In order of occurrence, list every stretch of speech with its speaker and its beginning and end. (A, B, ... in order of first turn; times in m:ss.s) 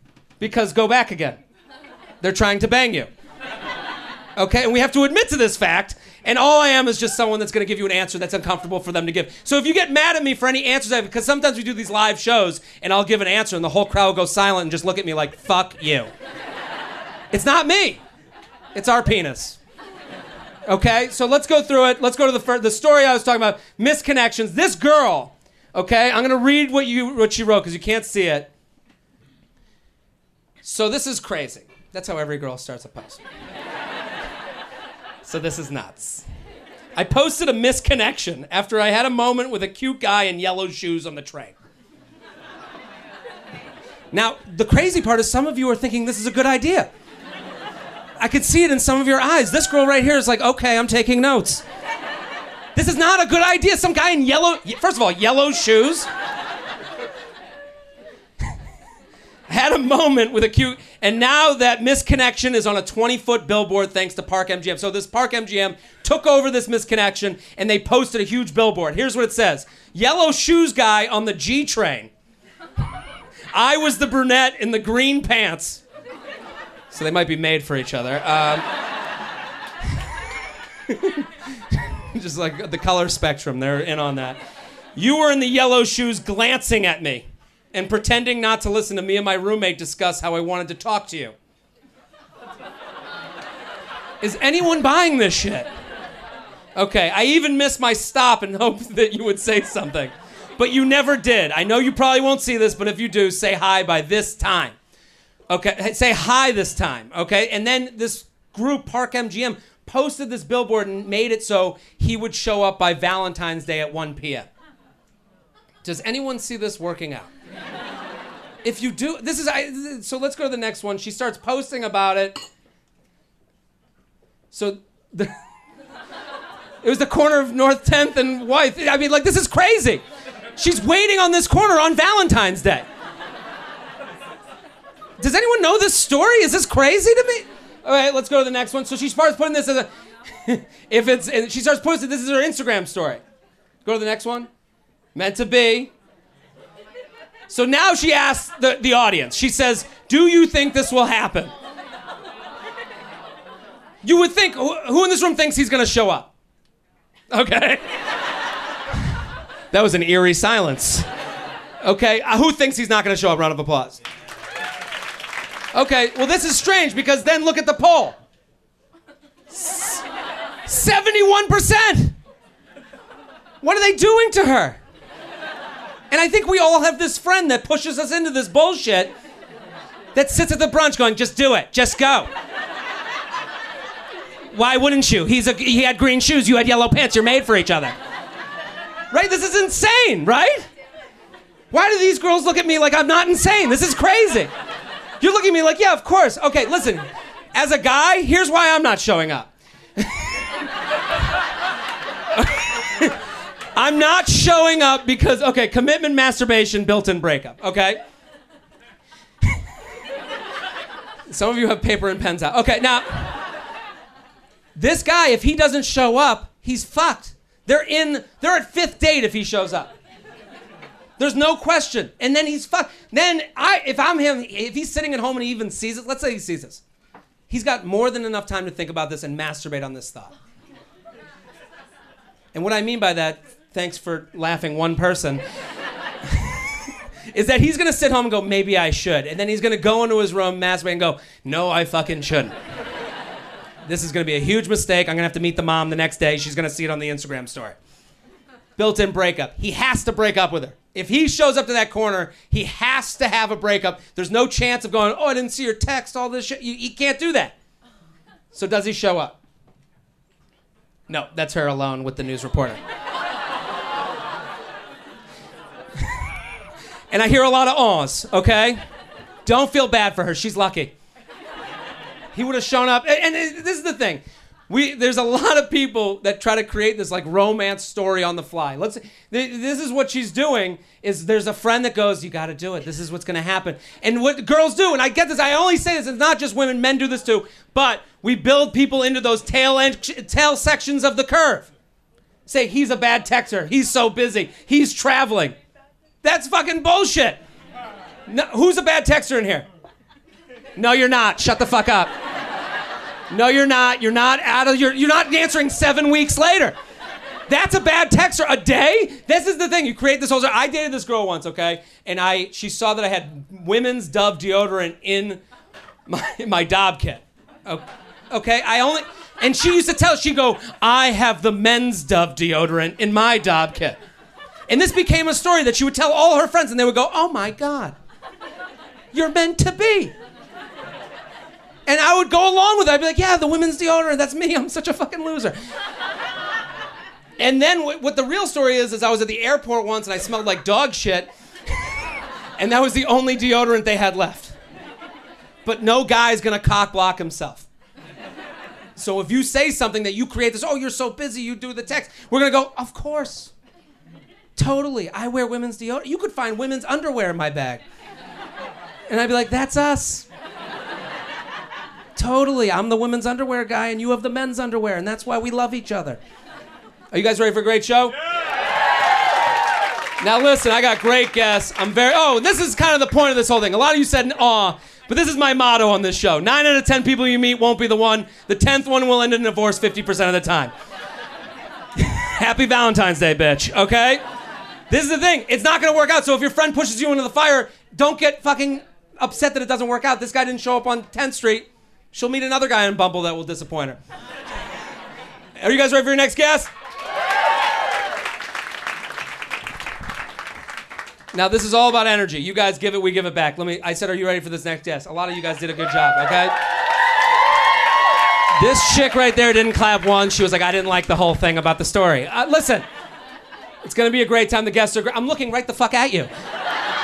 0:00.4-0:01.4 A
0:02.2-0:03.1 A
0:04.4-0:16.1 A
0:17.3-0:18.0 A
0:18.7-0:19.6 A
0:20.7-0:28.5 A
0:30.6-0:33.2 A
0:35.2-0:36.2 A
0:37.0-0:41.5 A
0:44.1-0:46.9 A
0:48.2-0:51.6 A
0:52.7-0:56.1 A
0:59.5-1:12.1 A
1:13.5-1:15.8 A
1:16.9-1:18.6 A
1:20.9-1:24.4 A
1:25.0-1:31.3 A
1:34.2-1:35.7 A
1:36.8-1:44.7 A
1:45.5-1:54.5 A
1:55.8-1:57.3 A
1:58.6-2:02.4 A
2:04.5-2:05.3 A
2:06.8-2:10.0 A
2:10.6-2:12.8 A
2:15.2-2:19.9 A
2:20.4-2:23.2 A
2:23.8-2:24.5 A
2:25.1-2:25.9 A
2:27.5-2:31.5 A
2:34.0-2:36.3 A
2:37.3-2:37.8 A
2:39.7-2:41.0 A
2:41.8-2:44.0 A
2:45.7-2:48.2 A
2:49.5-2:50.0 A
2:50.6-2:52.1 A
2:53.6-2:54.8 A
2:56.1-2:59.1 A
3:00.1-3:02.3 A
3:04.5-3:08.0 A
3:09.1-3:10.7 A
3:11.7-3:14.5 A
3:15.2-3:20.4 A
3:22.3-3:23.2 A
3:23.7-3:28.0 A
3:31.3-3:33.4 A
3:34.8-3:39.9 A
3:41.2-3:46.8 A
3:47.5-3:50.3 A
3:52.5-3:55.4 A
3:56.2-3:56.7 A
3:57.3-4:02.5 A
4:03.8-4:07.8 A
4:08.8-4:17.5 A
4:18.5-4:19.4 A
4:21.1-4:22.8 A
4:27.1-4:28.8 A
4:29.4-4:30.9 A
4:32.3-4:51.7 A
4:52.5-4:55.6 A
4:56.2-4:57.4 A
4:58.3-4:59.6 A
5:00.8-5:02.1 A
5:03.3-5:06.7 A
5:07.5-5:15.4 A
5:16.1-5:24.0 A
5:24.7-5:27.9 A
5:29.1-5:30.1 A
5:31.9-5:35.5 A
5:37.4-5:41.3 A
5:42.6-5:44.5 A
5:45.6-5:47.7 A
5:49.0-5:53.5 A
5:54.6-5:57.8 A
5:59.1-6:00.2 A
6:02.2-6:06.2 A
6:07.1-6:08.1 A
6:10.2-6:20.7 A
6:22.0-6:24.2 A
6:24.9-6:34.0 A
6:35.6-6:36.7 A
6:41.3-6:46.5 A
6:48.5-6:52.8 A
6:53.8-6:56.3 A